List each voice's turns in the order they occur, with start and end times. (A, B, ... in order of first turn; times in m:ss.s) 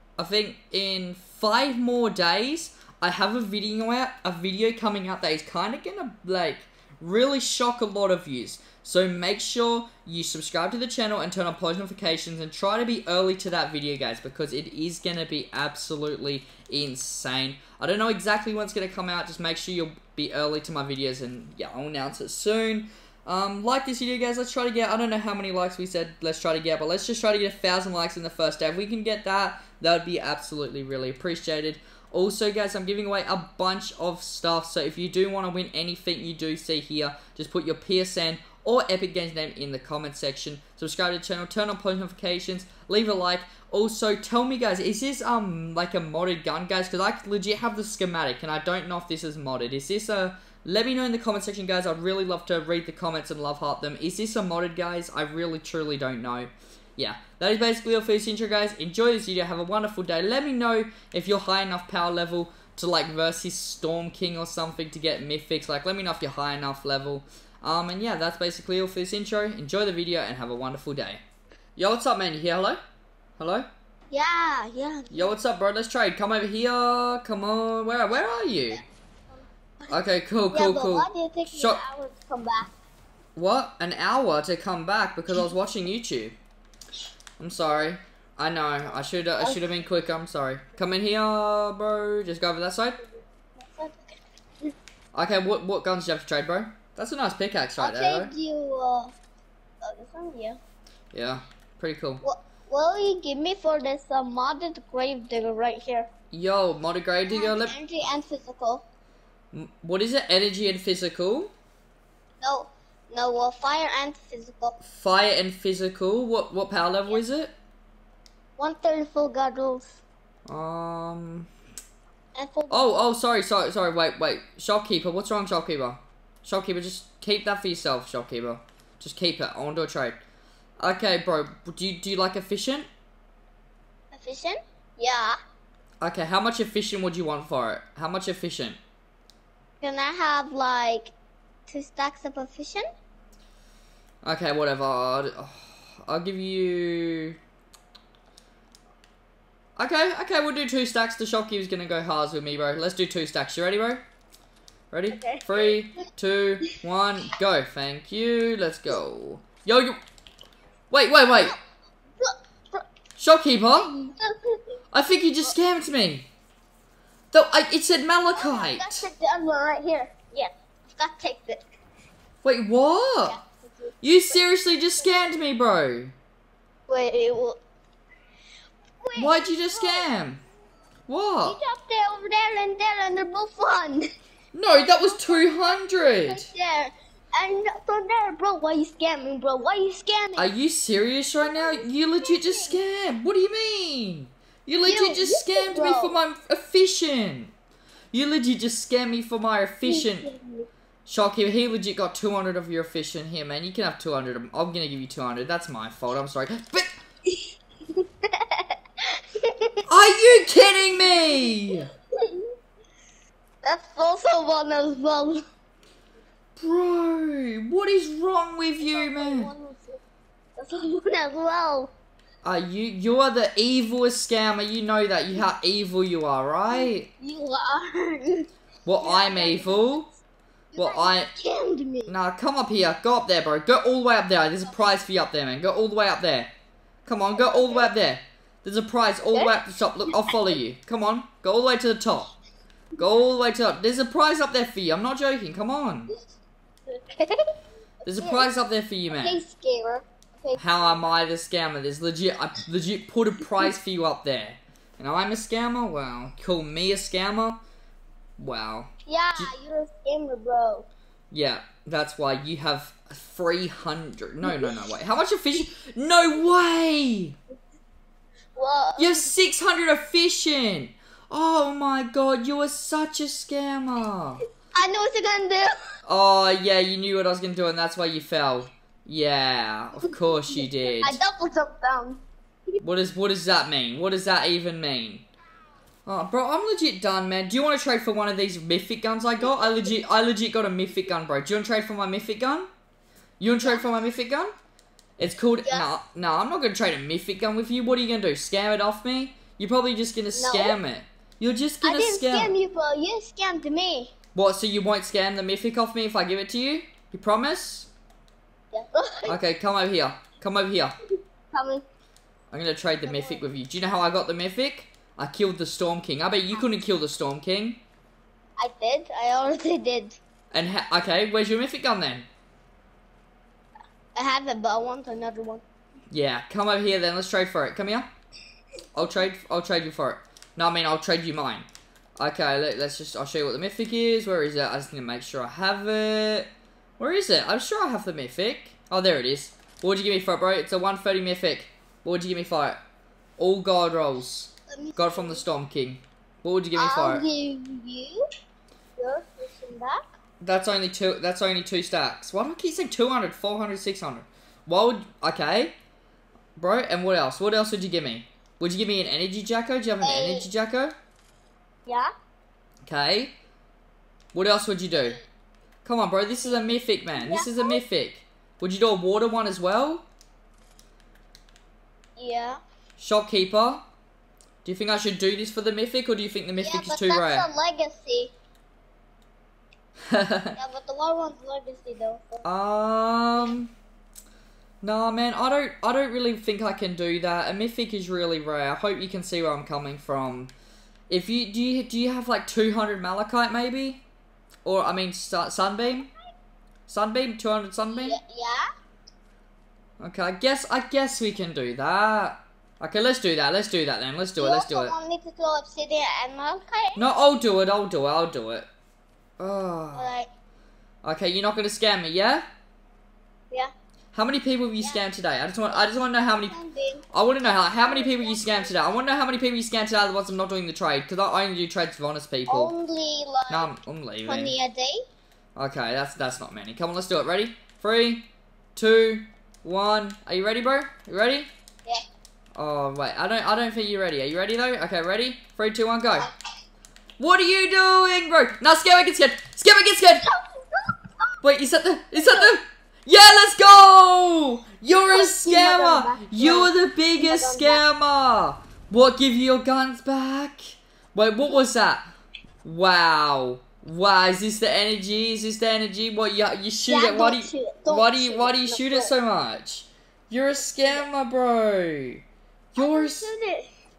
0:00.2-1:11.2 A
1:11.8-1:12.8 A
1:13.4-1:13.7 A
1:14.1-1:15.3 B
1:15.1-1:18.8 A
1:19.9-1:21.8 A
1:20.5-1:22.7 B
1:23.4-1:26.4 A
1:27.4-1:33.0 A
1:33.6-1:34.7 B
1:35.1-1:38.3 A
1:37.8-1:39.2 B
1:39.8-1:40.6 B
1:41.1-1:42.2 A
1:42.2-1:46.1 B
1:46.3-1:47.7 A
1:47.3-1:48.8 B
1:49.5-1:51.5 A
1:52.4-1:54.8 B
1:54.8-1:57.5 A
1:58.6-2:00.0 B
2:00.5-2:01.5 A
2:02.3-2:02.9 B
2:02.7-2:10.2 A
2:10.8-2:12.9 A
2:14.1-2:15.4 B
2:16.0-2:18.8 A
2:19.8-2:21.1 B
2:21.7-2:22.9 B
2:24.2-2:27.4 A
2:29.8-2:34.0 A
2:34.9-2:40.0 A
2:35.1-2:35.8 B
2:40.9-2:41.5 A
2:41.3-2:41.6 B
2:42.2-2:42.8 B
2:43.2-2:43.9 A
2:43.7-2:44.7 B
2:44.9-2:46.2 A
2:47.3-2:49.0 A
2:48.3-2:51.7 B
2:52.4-2:53.4 A
2:53.2-2:53.7 B
2:54.0-2:56.1 A
2:56.9-2:57.6 B
2:59.0-3:00.1 B
2:59.2-3:00.4 A
3:01.1-3:01.6 A
3:01.4-3:04.1 B
3:04.5-3:06.5 A
3:04.7-3:10.5 B
3:10.4-3:17.5 A
3:11.4-3:12.8 B
3:14.8-3:16.2 B
3:18.1-3:20.3 A
3:19.8-3:20.7 B
3:21.1-3:26.9 A
3:27.3-3:32.5 B
3:29.8-3:31.9 A
3:33.6-3:35.4 B
3:36.6-3:39.5 A
3:38.8-3:40.0 B
3:40.6-3:41.9 B
3:42.4-3:47.1 A
3:46.7-3:48.5 B
3:48.8-3:50.1 A
3:49.0-3:50.0 B
3:50.7-3:52.1 B
3:50.8-3:51.3 A
3:52.0-3:56.5 A
3:57.0-4:02.3 A
3:57.3-3:57.9 B
4:00.0-4:00.4 B
4:03.0-4:06.1 A
4:06.9-4:07.5 B
4:08.0-4:09.4 A
4:08.2-4:08.5 B
4:09.1-4:10.6 B
4:10.6-4:17.6 A
4:18.4-4:19.5 A
4:19.0-4:20.9 B
4:21.3-4:27.3 A
4:24.4-4:24.8 B
4:28.5-4:29.3 B
4:29.0-4:34.4 A
4:34.7-4:35.8 B
4:36.0-4:41.2 A
4:40.5-4:42.2 B
4:42.8-4:45.3 A
4:46.0-4:52.7 A
4:53.4-4:54.5 A
4:55.2-5:02.5 A
4:55.6-4:55.9 B
5:00.3-5:00.8 B
5:01.8-5:04.1 B
5:04.3-5:07.9 A
5:08.7-5:09.4 B
5:09.3-5:11.0 A
5:11.5-5:11.8 B
5:12.5-5:17.8 A
5:13.0-5:13.4 B
5:18.6-5:20.2 B
5:20.5-5:22.3 A
5:24.1-5:25.6 B
5:26.1-5:28.1 A
5:28.9-5:31.7 A
5:32.2-5:42.8 A
5:43.4-5:47.2 A
5:44.7-5:45.4 B
5:46.7-5:48.2 B
5:49.0-5:50.0 B
5:50.4-5:55.7 A
5:56.6-6:00.9 A
6:00.0-6:00.5 B
6:02.8-6:03.3 A
6:04.3-6:05.2 A
6:05.8-6:10.0 A
6:07.1-6:07.8 B
6:12.2-6:12.6 B
6:13.0-6:13.8 A
6:14.6-6:17.5 A
6:16.6-6:18.3 B
6:20.1-6:20.6 A
6:20.6-6:22.4 B
6:22.4-6:23.7 A
6:24.8-6:30.5 A
6:31.1-6:34.0 A
6:34.6-6:36.1 A
6:36.9-6:38.2 A
6:37.9-6:38.7 B
6:40.0-6:44.9 A
6:44.4-6:47.0 B
6:47.0-6:48.7 A
6:49.4-6:50.1 A
6:49.9-6:50.3 B
6:51.0-6:52.4 A
6:54.1-6:56.6 A
6:56.4-6:57.0 B
6:57.1-7:02.7 A
6:57.6-6:58.8 B
7:02.5-7:03.7 B
7:03.5-7:04.5 A
7:04.2-7:05.0 B
7:05.6-7:11.5 A
7:12.6-7:16.3 A
7:17.2-7:20.3 A
7:20.2-7:21.3 B
7:21.4-7:32.1 A
7:22.1-7:22.5 B
7:25.1-7:27.8 B
7:32.6-7:42.2 A
7:36.8-7:39.1 B
7:42.7-7:43.3 A
7:42.8-7:43.7 B